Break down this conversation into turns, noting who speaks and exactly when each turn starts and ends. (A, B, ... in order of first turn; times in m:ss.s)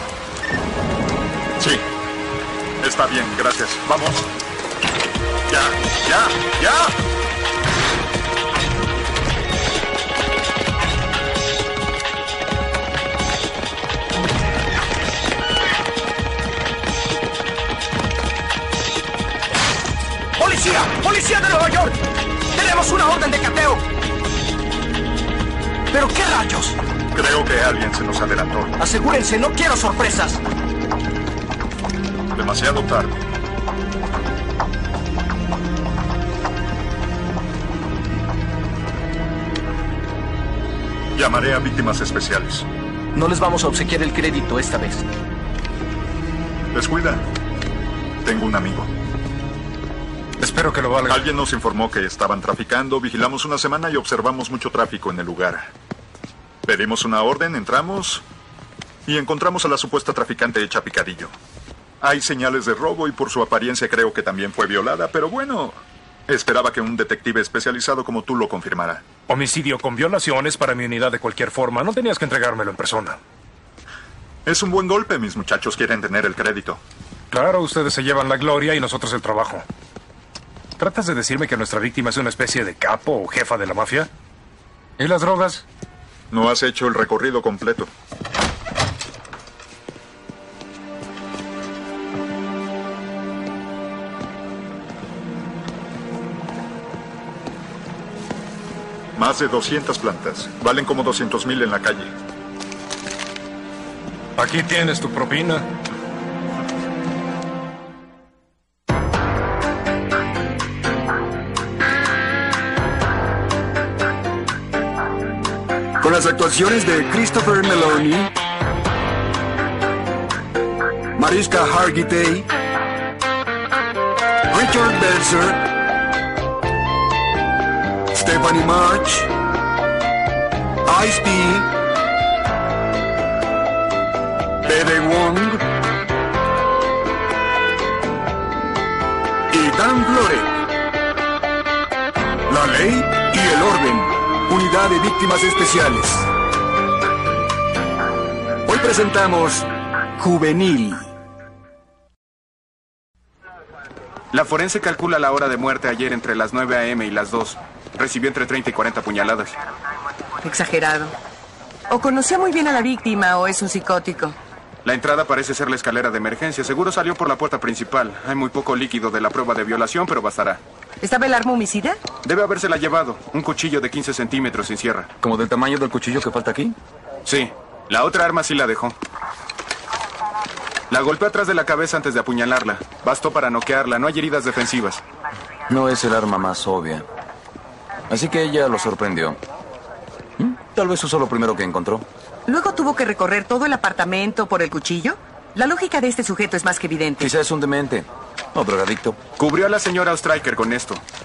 0:01.6-0:01.8 A
0:02.8-0:04.3 A
0:05.5-0:06.9 A
0:20.4-0:22.0 B
0:22.5-0:23.8 B
0:25.9-0:26.8 B
0:27.1-0:28.7 A
0:28.8-0:30.4 B
0:32.3-0:33.2 A
0:41.1-0:42.7 A
0:43.1-0:45.0 B
0:46.7-0:47.2 A
0:48.2-0:48.9 A
0:50.4-0:51.2 C
0:51.1-0:55.7 A
0:56.6-0:58.2 A
0:59.0-1:01.3 A
1:02.0-1:09.0 A
1:09.3-1:13.2 C
1:14.4-1:16.8 A
1:17.3-1:19.6 C
1:20.8-1:24.1 C
1:25.0-1:25.6 C
1:26.3-1:27.9 A
1:39.2-1:42.1 A
1:44.4-1:45.6 C
1:56.0-1:58.3 D
2:01.2-2:02.5 D
2:04.5-2:05.6 D
2:08.1-2:09.3 D
2:10.8-2:11.7 D
2:14.6-2:15.6 D
2:19.5-2:20.5 D
2:22.5-2:26.3 D
2:28.6-2:29.7 D
2:30.2-2:31.0 D
2:34.3-2:39.5 E
2:40.4-2:41.1 F
2:41.9-2:44.4 F
2:44.8-2:50.6 E
2:51.0-2:52.0 F
2:52.2-2:55.1 E
2:55.2-2:56.8 G
2:57.2-2:59.0 E
3:00.9-3:05.0 E
3:05.7-3:07.0 G
3:08.1-3:09.4 G
3:10.4-3:12.0 G
3:12.5-3:17.3 F
3:17.2-3:19.2 G
3:19.4-3:21.0 E